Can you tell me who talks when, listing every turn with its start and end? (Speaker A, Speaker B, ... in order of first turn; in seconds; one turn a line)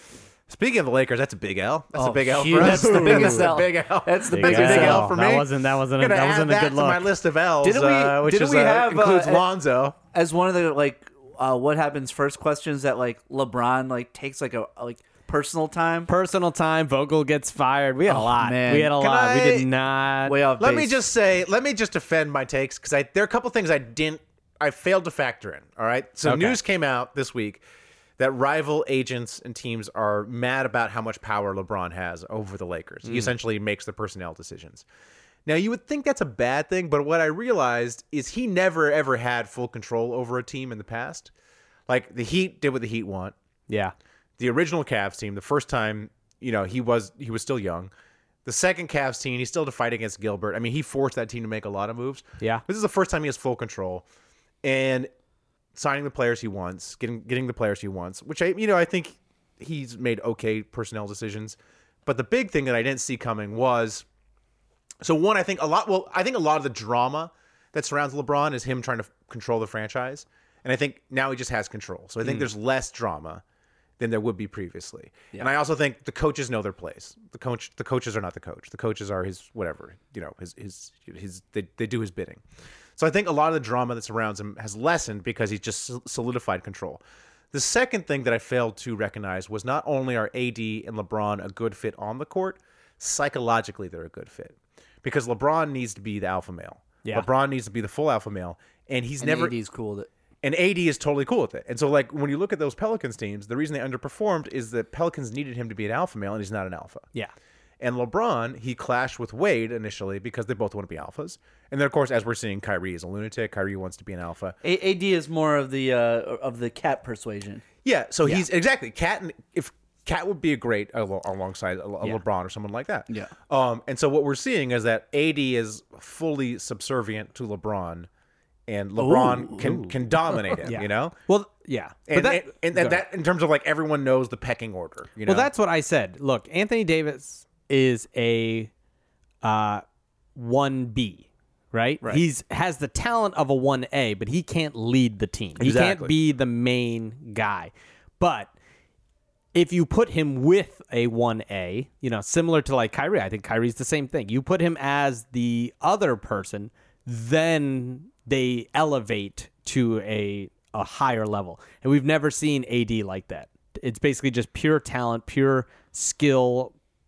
Speaker A: 0.5-9.9
Speaker B: 1.9-5.1
Speaker C: 2.6-3.5
Speaker C: 4.3-7.1
Speaker B: 7.6-9.4
Speaker B: 10.1-16.1
Speaker C: 16.1-20.4
Speaker B: 18.1-18.9
Speaker A: 18.9-19.7
Speaker B: 20.2-20.9
Speaker A: 20.6-27.6
Speaker C: 26.2-26.6
Speaker A: 28.2-34.8
Speaker C: 33.0-33.3
Speaker A: 35.5-41.3
Speaker A: 41.9-43.3
Speaker C: 43.7-43.9
Speaker A: 44.4-47.9
Speaker A: 48.4-54.0
Speaker A: 54.6-55.1
Speaker A: 55.7-64.0
Speaker A: 65.0-73.4
Speaker A: 74.0-82.4
Speaker A: 83.0-99.5
Speaker B: 99.2-100.1
Speaker A: 100.4-107.0
Speaker A: 107.8-114.5
Speaker B: 114.6-117.6
Speaker A: 117.8-128.1
Speaker A: 128.7-131.2
Speaker B: 129.0-129.7
Speaker C: 129.6-129.9
Speaker C: 130.6-133.0
Speaker A: 132.1-135.5
Speaker C: 135.2-138.7
Speaker C: 139.4-139.8
Speaker C: 140.3-148.5
Speaker A: 145.6-146.1
Speaker C: 149.5-166.7